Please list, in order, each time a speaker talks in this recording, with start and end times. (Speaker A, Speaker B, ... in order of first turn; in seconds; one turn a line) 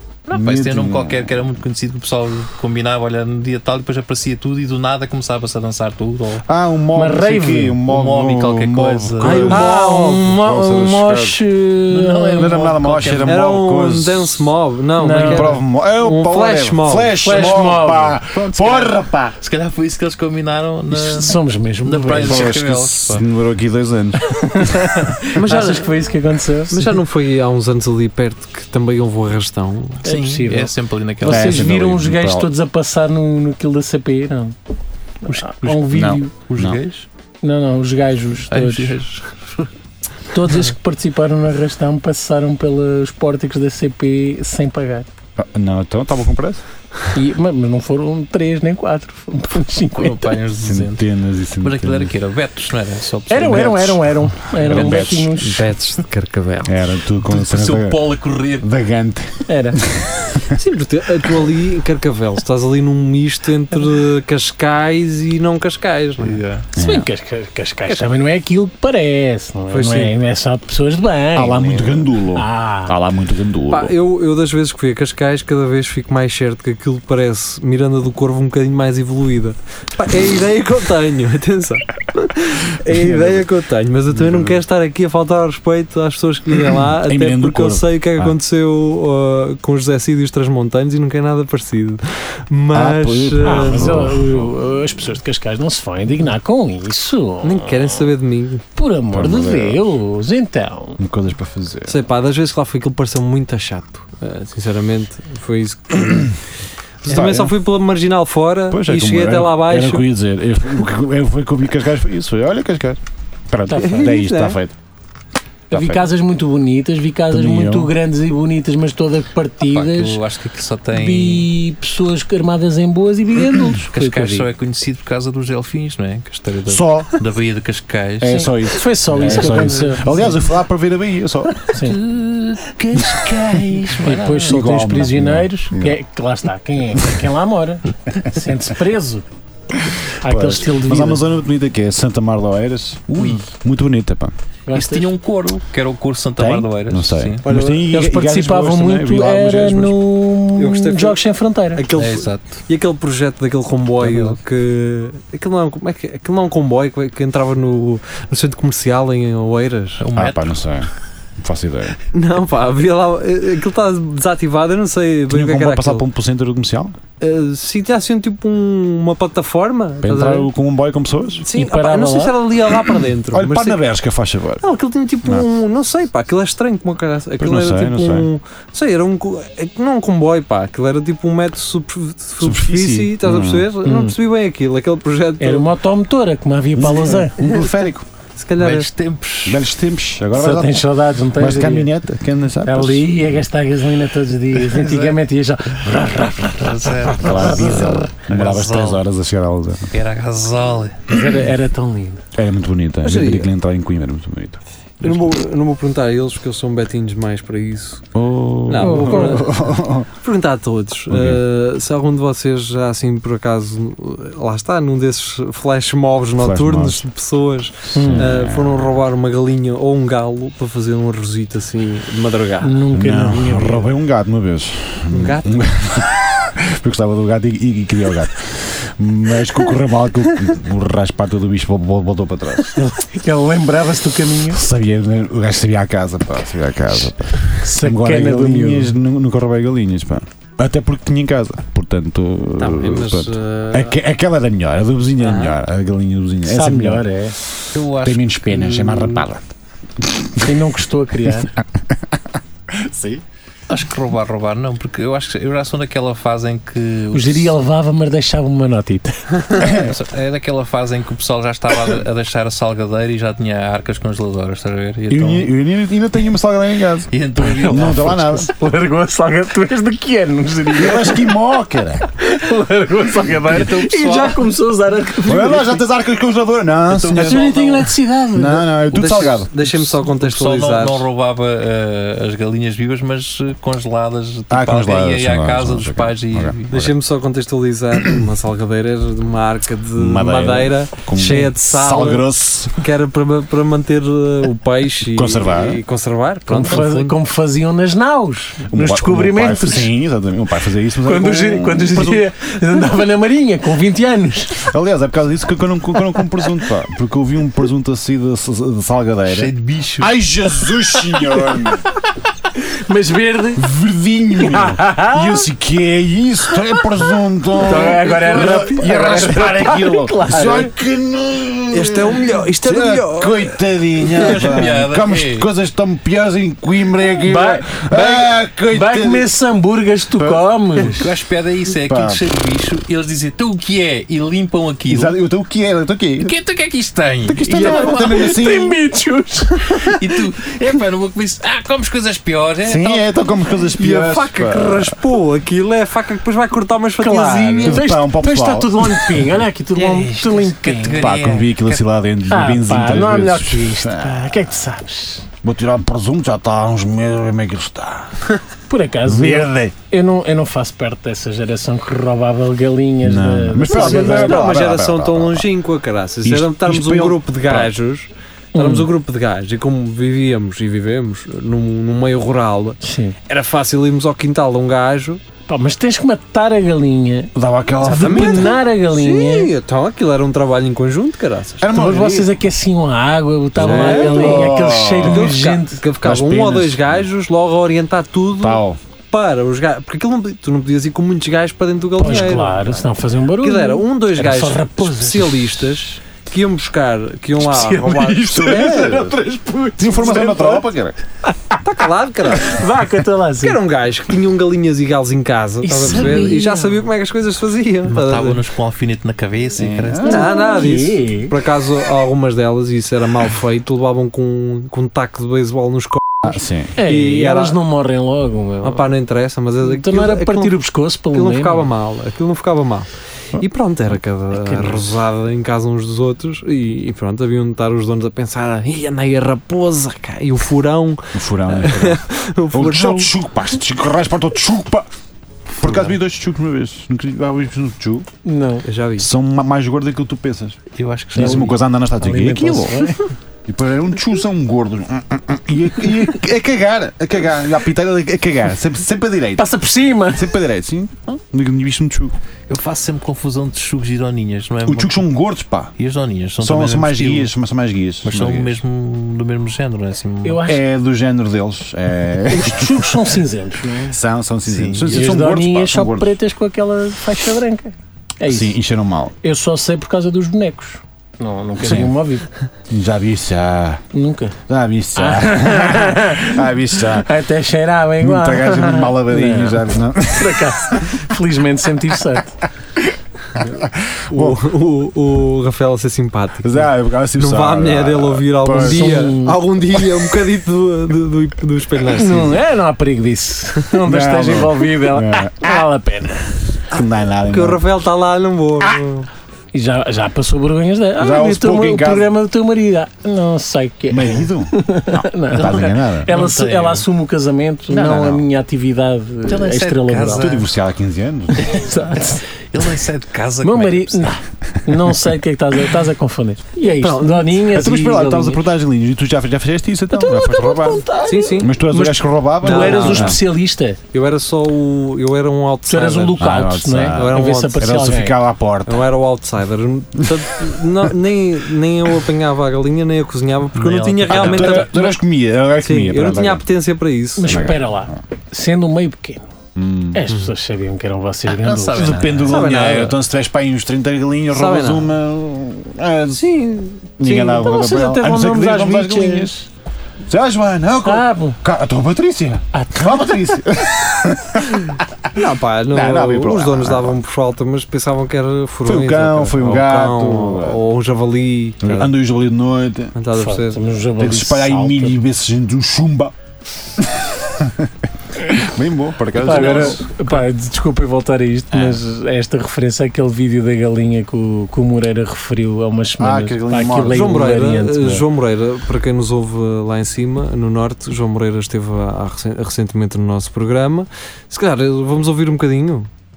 Speaker A: 0.3-6.5
Speaker B: 0.3-1.5
Speaker B: 6.5-11.4
Speaker C: 7.0-7.8
Speaker A: 7.9-9.6
Speaker D: 9.2-10.3
Speaker C: 9.3-12.5
Speaker A: 11.9-13.4
Speaker B: 12.4-14.4
Speaker D: 13.2-17.2
Speaker C: 15.0-15.6
Speaker B: 15.2-19.4
Speaker C: 17.2-18.2
Speaker A: 17.3-23.2
Speaker C: 20.9-22.5
Speaker B: 22.2-24.4
Speaker C: 24.4-27.0
Speaker D: 25.4-25.9
Speaker D: 26.7-30.1
Speaker A: 30.1-31.7
Speaker C: 30.1-34.5
Speaker B: 31.2-32.5
Speaker C: 35.2-36.3
Speaker A: 35.5-35.9
Speaker B: 35.9-36.8
Speaker A: 36.5-37.1
Speaker C: 37.4-39.0
Speaker A: 38.5-39.7
Speaker C: 40.3-45.1
Speaker B: 45.4-46.6
Speaker C: 47.1-50.3
Speaker A: 50.0-51.1
Speaker B: 50.6-52.1
Speaker A: 51.6-53.9
Speaker C: 53.3-55.7
Speaker B: 53.5-55.3
Speaker D: 54.8-56.9
Speaker B: 56.6-60.6
Speaker A: 57.3-58.7
Speaker C: 59.5-59.8
Speaker D: 60.5-66.4
Speaker A: 66.2-66.7
Speaker B: 66.8-67.1
Speaker C: 66.8-73.0
Speaker D: 69.7-70.1
Speaker B: 71.3-73.9
Speaker D: 73.7-94.1
Speaker B: 82.9-83.5
Speaker B: 84.1-84.6
Speaker B: 86.7-88.3
Speaker B: 92.7-94.5
Speaker C: 93.4-98.1
Speaker D: 97.4-98.7
Speaker C: 98.8-101.0
Speaker B: 99.1-99.8
Speaker B: 101.0-102.0
Speaker D: 101.9-106.4
Speaker D: 107.0-110.1
Speaker B: 107.1-107.5
Speaker B: 108.7-114.8
Speaker C: 113.7-114.0
Speaker D: 113.7-114.6
Speaker B: 115.7-116.0
Speaker C: 115.7-120.2
Speaker B: 117.3-117.9
Speaker A: 119.7-121.5
Speaker C: 120.9-124.5
Speaker A: 123.8-128.5
Speaker B: 126.7-127.1
Speaker B: 128.2-131.6
Speaker C: 128.3-130.3
Speaker A: 129.2-130.2
Speaker C: 131.7-132.0
Speaker A: 131.7-134.5
Speaker C: 133.1-139.3
Speaker B: 133.2-133.7
Speaker B: 134.3-136.0
Speaker C: 140.2-141.3
Speaker B: 140.2-144.3
Speaker A: 143.1-143.5
Speaker C: 144.7-145.1
Speaker A: 144.7-147.4
Speaker B: 146.4-150.0
Speaker C: 147.5-151.8
Speaker D: 147.5-147.8
Speaker D: 150.5-151.2
Speaker D: 151.8-160.1
Speaker A: 151.9-152.7
Speaker A: 154.0-154.4
Speaker A: 160.0-160.7
Speaker B: 160.2-162.0
Speaker D: 162.1-166.1
Speaker B: 165.3-167.0
Speaker D: 167.2-170.5
Speaker B: 170.0-171.4
Speaker D: 171.4-173.8
Speaker C: 171.5-172.4
Speaker B: 173.3-174.6
Speaker D: 174.6-185.7
Speaker B: 177.4-178.3
Speaker B: 182.4-183.7
Speaker C: 183.8-184.2
Speaker C: 185.4-187.4
Speaker B: 186.8-188.1
Speaker D: 187.4-187.7
Speaker D: 188.4-188.9
Speaker A: 188.6-189.6
Speaker B: 189.5-193.3
Speaker C: 190.3-191.9
Speaker C: 192.7-198.1
Speaker A: 194.7-195.2
Speaker A: 196.6-199.0
Speaker B: 197.1-199.9
Speaker A: 199.9-201.1
Speaker C: 201.1-202.2
Speaker B: 202.3-205.3
Speaker D: 203.0-203.5
Speaker D: 205.0-208.1
Speaker B: 208.2-210.1
Speaker D: 208.7-209.6
Speaker C: 208.8-209.4
Speaker D: 210.2-222.8
Speaker B: 211.1-211.4
Speaker B: 216.4-217.0
Speaker C: 217.9-218.3
Speaker B: 218.0-219.0
Speaker C: 222.6-223.9
Speaker B: 222.9-232.8
Speaker D: 225.1-225.5
Speaker C: 232.8-234.6
Speaker B: 234.5-249.5
Speaker C: 237.4-239.0
Speaker D: 242.6-244.0
Speaker D: 245.2-245.6
Speaker C: 246.4-247.4
Speaker A: 247.7-249.3
Speaker B: 250.0-250.7
Speaker C: 250.4-251.5
Speaker B: 251.3-253.2
Speaker A: 253.7-257.6
Speaker C: 257.1-259.7
Speaker B: 259.6-259.9
Speaker A: 259.6-265.5
Speaker B: 265.1-268.5
Speaker A: 267.1-268.5
Speaker C: 268.5-271.4
Speaker B: 270.7-272.0
Speaker C: 272.0-275.8
Speaker A: 273.4-274.5
Speaker B: 275.2-277.5
Speaker A: 276.9-277.9
Speaker C: 277.2-278.8
Speaker B: 278.3-279.5
Speaker D: 278.9-281.1
Speaker A: 279.1-286.7
Speaker B: 284.5-286.9
Speaker D: 286.7-297.2
Speaker B: 290.0-292.8
Speaker B: 295.1-295.8
Speaker C: 296.5-299.9
Speaker B: 298.7-302.3
Speaker C: 301.1-304.7
Speaker B: 304.6-311.9
Speaker A: 309.3-310.1
Speaker C: 312.7-313.6
Speaker B: 313.6-329.3
Speaker C: 314.4-315.5
Speaker C: 317.6-320.8
Speaker D: 321.7-323.6
Speaker A: 324.2-325.5
Speaker C: 327.2-331.1
Speaker B: 330.2-330.5
Speaker A: 331.0-335.2
Speaker B: 331.8-332.3
Speaker B: 334.9-336.3
Speaker A: 336.2-338.2
Speaker B: 337.3-338.8
Speaker C: 337.5-340.0
Speaker A: 339.7-343.0
Speaker B: 342.6-345.0
Speaker D: 343.8-347.8
Speaker C: 347.0-351.0
Speaker B: 347.6-349.4
Speaker A: 349.8-351.9
Speaker B: 350.9-354.6
Speaker C: 352.3-355.3
Speaker B: 355.4-358.3
Speaker C: 358.7-364.5
Speaker B: 359.1-359.7
Speaker B: 363.0-365.5
Speaker D: 363.7-375.2
Speaker B: 366.2-367.7
Speaker C: 368.5-368.9
Speaker C: 372.8-373.2
Speaker C: 375.5-379.5
Speaker B: 377.3-378.6
Speaker D: 377.9-381.7
Speaker B: 381.6-382.3
Speaker C: 381.7-385.8
Speaker B: 383.6-385.4
Speaker D: 383.6-384.5
Speaker D: 385.0-392.8
Speaker B: 386.0-387.1
Speaker B: 388.4-388.8
Speaker C: 392.0-395.6
Speaker D: 393.4-398.8
Speaker C: 397.4-400.7
Speaker B: 398.3-399.2
Speaker B: 399.8-401.0
Speaker C: 401.3-401.6
Speaker D: 401.6-402.6
Speaker C: 402.3-403.6
Speaker D: 403.4-408.4
Speaker C: 405.6-406.9
Speaker A: 407.9-410.2
Speaker B: 409.6-410.4
Speaker C: 410.0-411.4
Speaker D: 410.1-417.6
Speaker B: 416.2-416.8
Speaker C: 416.8-418.9
Speaker D: 418.6-420.6
Speaker C: 419.6-421.7
Speaker D: 421.1-433.1
Speaker B: 423.4-424.0
Speaker C: 424.3-425.0
Speaker B: 431.1-434.9
Speaker B: 435.6-438.1
Speaker C: 438.2-438.6
Speaker D: 438.6-439.1
Speaker B: 439.0-440.6
Speaker A: 440.7-441.6
Speaker B: 441.1-449.5
Speaker C: 441.2-443.0
Speaker C: 449.4-450.3
Speaker B: 450.1-452.2
Speaker A: 452.5-455.1
Speaker B: 454.7-455.7
Speaker A: 455.8-457.3
Speaker B: 456.4-458.6
Speaker A: 458.0-460.4
Speaker C: 460.2-460.6
Speaker B: 460.4-463.1
Speaker C: 462.3-464.0
Speaker B: 463.9-466.2
Speaker A: 464.4-465.1
Speaker C: 464.9-468.6
Speaker B: 468.3-469.1
Speaker C: 469.2-472.3
Speaker B: 471.6-471.9
Speaker B: 472.7-473.8
Speaker C: 473.9-474.4
Speaker B: 474.5-477.1
Speaker C: 475.0-482.4
Speaker B: 478.0-481.1
Speaker B: 483.4-484.4
Speaker D: 484.1-492.4
Speaker B: 486.4-489.0
Speaker C: 488.6-489.4
Speaker C: 491.9-496.3
Speaker B: 493.8-495.7
Speaker B: 496.7-497.6
Speaker D: 497.3-499.1
Speaker C: 499.5-510.3
Speaker B: 501.0-502.1
Speaker B: 503.9-506.1
Speaker A: 505.4-506.9
Speaker B: 507.7-508.2
Speaker A: 509.3-510.5
Speaker B: 510.1-511.6
Speaker C: 511.4-512.7
Speaker A: 512.5-514.2
Speaker C: 513.4-518.5
Speaker B: 514.7-514.9
Speaker D: 516.8-517.2
Speaker B: 516.9-520.9
Speaker C: 519.9-523.8
Speaker D: 521.0-521.5
Speaker B: 521.4-523.2
Speaker D: 522.4-523.2
Speaker D: 523.9-526.2
Speaker C: 525.7-528.2
Speaker B: 526.2-528.9
Speaker D: 526.9-527.8
Speaker D: 528.7-535.0
Speaker B: 530.0-530.5
Speaker A: 533.5-534.7
Speaker B: 534.1-536.5
Speaker D: 535.6-537.5
Speaker C: 537.2-539.3
Speaker B: 537.3-537.9
Speaker B: 539.5-540.0
Speaker C: 539.9-542.0
Speaker A: 541.3-542.7
Speaker B: 541.8-549.3
Speaker D: 542.3-543.0
Speaker D: 544.3-544.9
Speaker D: 546.2-547.4
Speaker C: 547.1-549.5
Speaker B: 550.1-555.2
Speaker C: 550.8-551.4
Speaker C: 552.5-553.4
Speaker D: 555.1-561.9
Speaker B: 555.7-557.0
Speaker B: 558.6-560.6
Speaker B: 561.6-563.0
Speaker D: 563.0-563.6
Speaker C: 563.1-565.0
Speaker B: 564.0-566.1
Speaker B: 566.8-569.8
Speaker C: 569.2-578.0
Speaker B: 571.5-571.8
Speaker B: 576.0-577.1
Speaker D: 576.9-585.9